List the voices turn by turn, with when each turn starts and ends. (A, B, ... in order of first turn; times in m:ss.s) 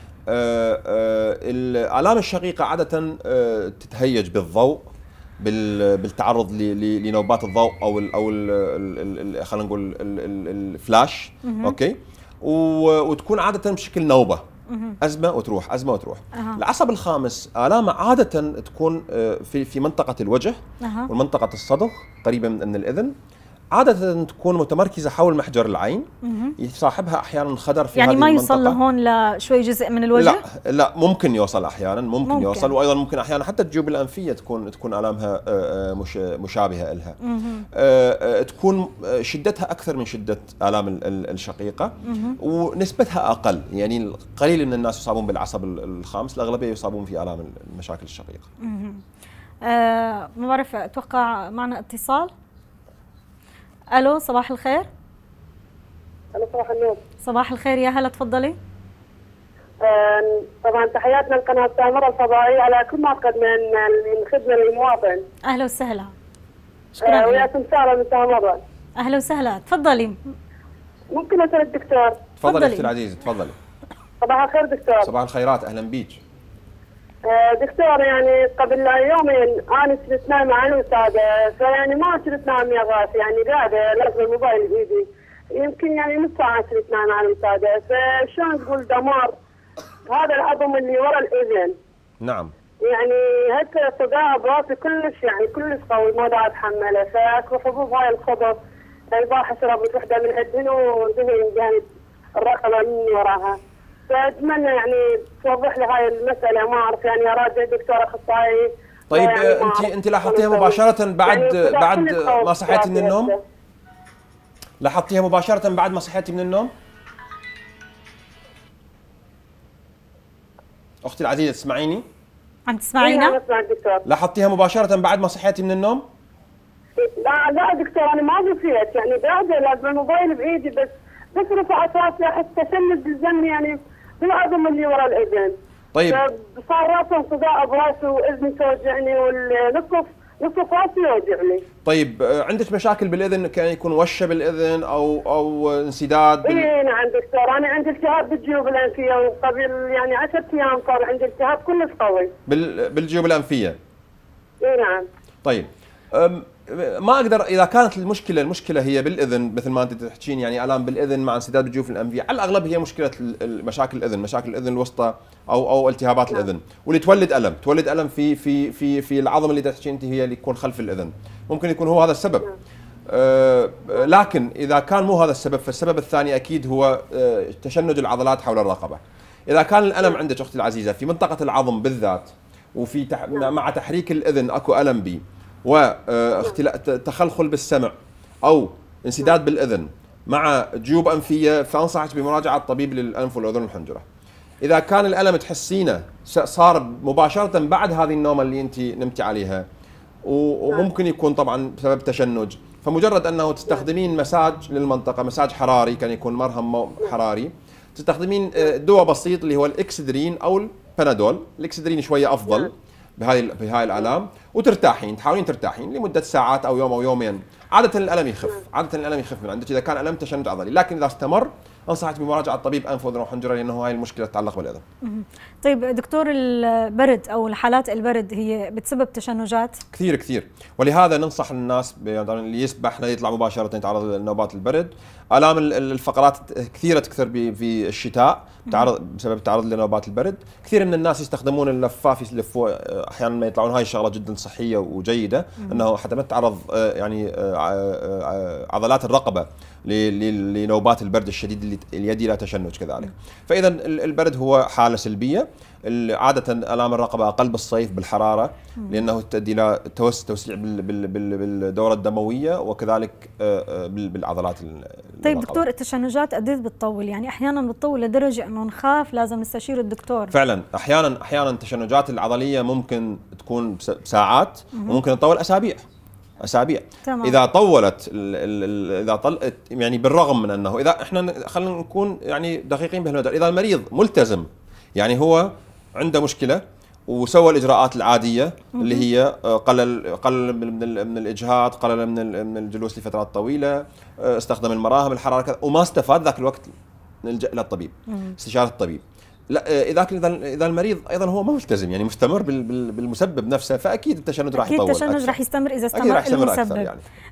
0:00.3-0:04.9 A
0:05.4-0:14.4 A
0:11.4-0:11.8 B
0:14.7-0:15.0 B
0:15.0-0:23.1 A
0:16.3-0:16.6 B
0:20.8-0:21.1 B
0:23.7-0:28.8 A
0:26.2-0:26.5 B
0:28.0-0:30.4 B
0:30.1-0:37.2 A
0:32.2-0:32.7 B
0:37.3-0:37.6 B
0:37.7-0:48.5 A
0:42.0-0:42.4 B
0:48.6-0:49.0 B
0:49.6-0:52.3 B
0:53.9-0:54.9 B
0:56.3-0:57.0 C
0:57.2-0:58.6 B
0:59.8-1:05.2 C
1:05.5-1:06.1 B
1:07.0-1:07.5 B
1:07.0-1:08.6 C
1:09.0-1:10.2 B
1:11.1-1:12.2 C
1:12.4-1:13.6 A
1:12.4-1:12.9 B
1:14.2-1:15.1 C
1:15.0-1:16.2 A
1:17.2-1:29.4 C
1:30.1-1:31.8 C
1:32.2-1:32.5 A
1:32.8-1:38.6 C
1:39.1-1:41.8 C
1:42.4-1:43.6 C
1:44.1-1:53.4 C
1:49.1-1:53.3 A
1:54.8-1:56.7 A
2:01.0-2:02.0 A
2:02.7-2:03.4 B
2:03.0-2:04.0 C
2:04.0-2:06.0 A
2:07.0-2:15.5 C
2:15.9-2:16.2 A
2:16.1-2:21.6 C
2:21.8-2:26.7 A
2:26.4-2:32.3 C
2:32.5-2:33.8 A
2:34.6-2:35.0 C
2:35.4-2:52.5 A
2:53.1-3:14.0 A
3:14.6-3:19.6 A
3:20.2-3:44.8 A
3:45.0-3:49.8 B
3:49.9-4:25.6 A
4:25.2-4:30.3 B
4:30.3-4:35.8 A
4:34.7-4:35.0 B
4:36.4-4:56.7 A
4:37.0-4:37.4 B
4:48.8-4:49.0 B
4:57.2-5:05.4 A
5:04.6-5:06.9 B
5:05.9-5:07.0 A